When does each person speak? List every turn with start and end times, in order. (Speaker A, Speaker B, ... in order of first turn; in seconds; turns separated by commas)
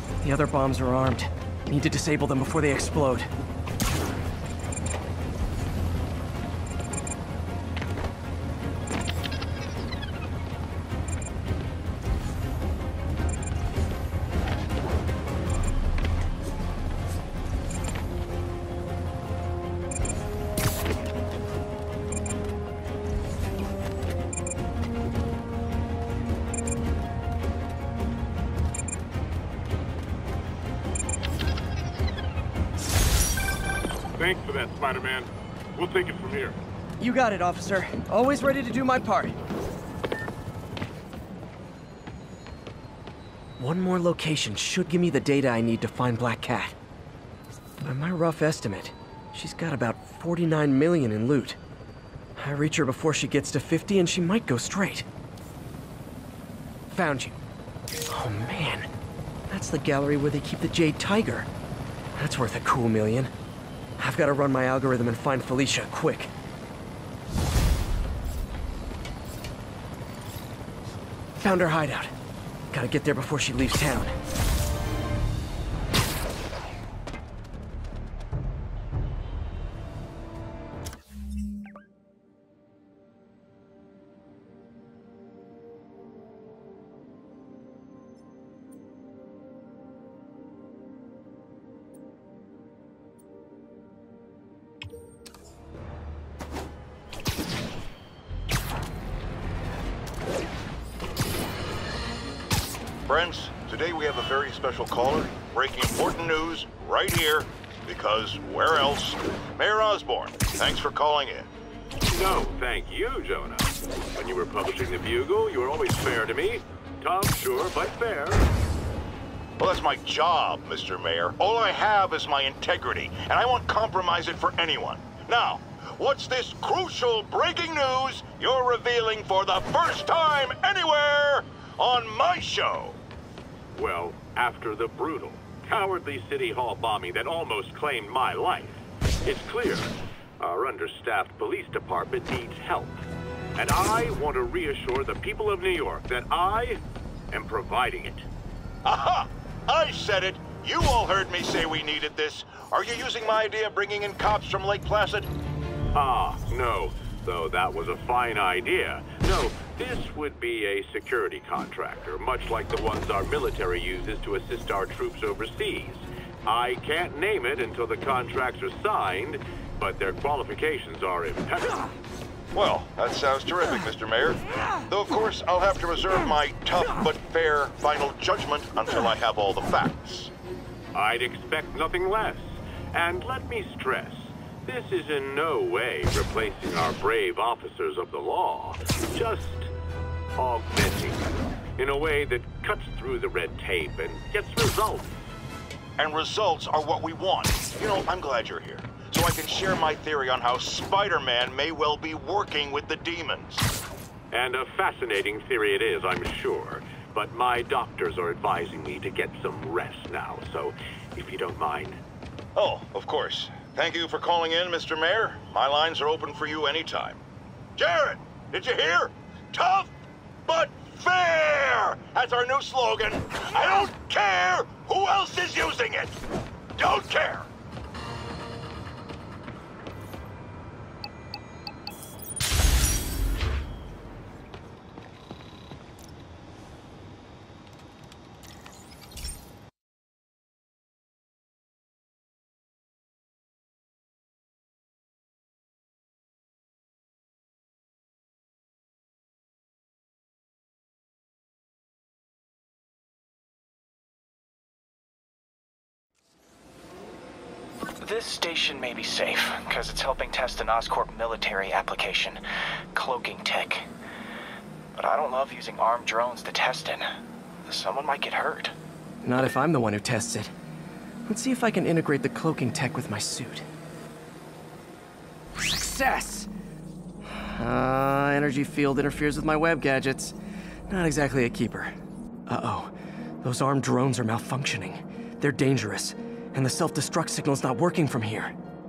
Speaker A: 0.2-3.3, Speaker B: 34.2-36.5, Speaker A: 37.0-39.4, Speaker A: 43.6-46.8, Speaker A: 47.8-51.6, Speaker A: 52.4-55.1, Speaker A: 56.9-57.4, Speaker A: 58.1-58.9, Speaker A: 59.5-61.5, Speaker A: 62.1-63.3, Speaker A: 64.0-66.3, Speaker A: 71.4-72.1, Speaker A: 72.7-74.1, Speaker C: 103.0-111.5, Speaker B: 112.1-118.4, Speaker C: 119.6-133.0, Speaker B: 133.7-143.0, Speaker B: 143.6-148.3, Speaker C: 148.8-155.3, Speaker B: 155.9-171.8, Speaker C: 172.5-180.3, Speaker B: 180.9-189.7, Speaker B: 190.4-191.2, Speaker B: 191.8-195.1, Speaker C: 196.0-203.7, Speaker B: 204.3-212.0, Speaker C: 212.6-217.2, Speaker C: 217.8-219.9, Speaker C: 220.5-226.2, Speaker C: 226.8-227.5, Speaker D: 258.0-262.4, Speaker D: 262.9-263.9, Speaker D: 264.9-267.1, Speaker D: 267.6-268.7, Speaker A: 269.2-270.5, Speaker A: 271.2-273.6, Speaker A: 275.5-276.5, Speaker A: 277.2-280.3, Speaker A: 280.9-281.9, Speaker A: 282.5-288.5